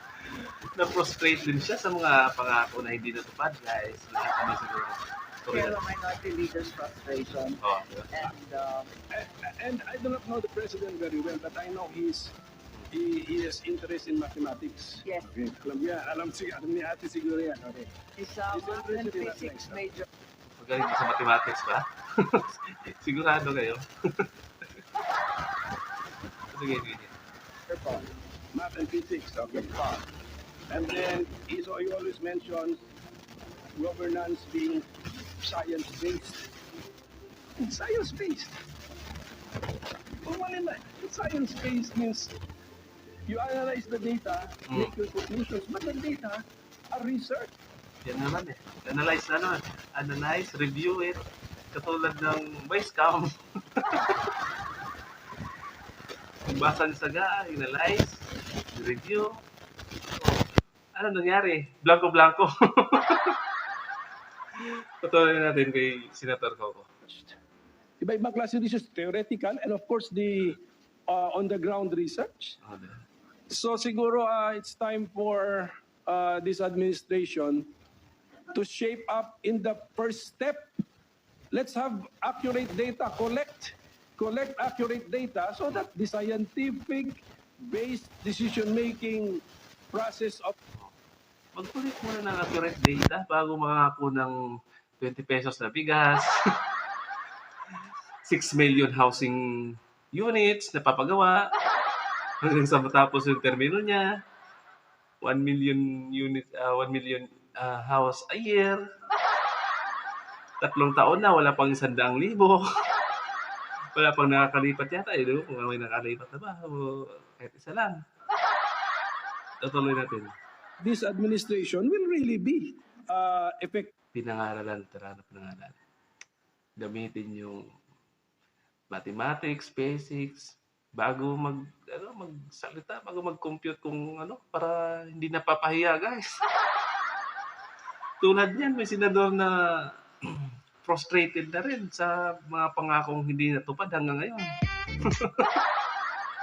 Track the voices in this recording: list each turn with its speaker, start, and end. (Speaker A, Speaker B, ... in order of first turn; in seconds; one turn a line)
Speaker A: 0.3-5.8
Speaker B: 5.5-8.9
Speaker A: 7.6-8.1
Speaker C: 9.1-12.3
Speaker C: 12.9-17.9
Speaker B: 18.2-20.1
Speaker C: 18.5-19.9
Speaker A: 20.6-24.6
Speaker A: 26.5-27.1
Speaker B: 27.7-28.1
Speaker C: 28.5-29.7
Speaker B: 29.5-30.1
Speaker C: 30.7-32.8
Speaker C: 33.8-34.9
Speaker C: 35.4-36.5
Speaker C: 37.6-38.6
Speaker C: 40.2-42.4
Speaker C: 43.3-47.5
Speaker A: 44.7-44.9
Speaker A: 48.0-51.2
Speaker A: 51.7-54.3
Speaker A: 56.5-59.4
Speaker A: 61.0-63.4
Speaker A: 64.5-66.9
Speaker C: 67.1-67.4
Speaker C: 68.0-72.6
Speaker A: 72.6-73.0
Speaker C: 73.5-77.7
Speaker C: 78.5-80.7
Speaker C: 81.5-90.5
Speaker A: 91.5-94.3
Speaker A: 95.0-96.3
Speaker A: 98.2-101.5
Speaker A: 102.4-104.1
Speaker A: 105.2-108.8
Speaker A: 110.6-112.7
Speaker A: 114.0-118.0
Speaker A: 119.6-120.3
Speaker C: 120.8-123.9
Speaker A: 124.1-125.8
Speaker A: 126.8-127.7
Speaker A: 128.9-136.2
Speaker A: 138.2-145.6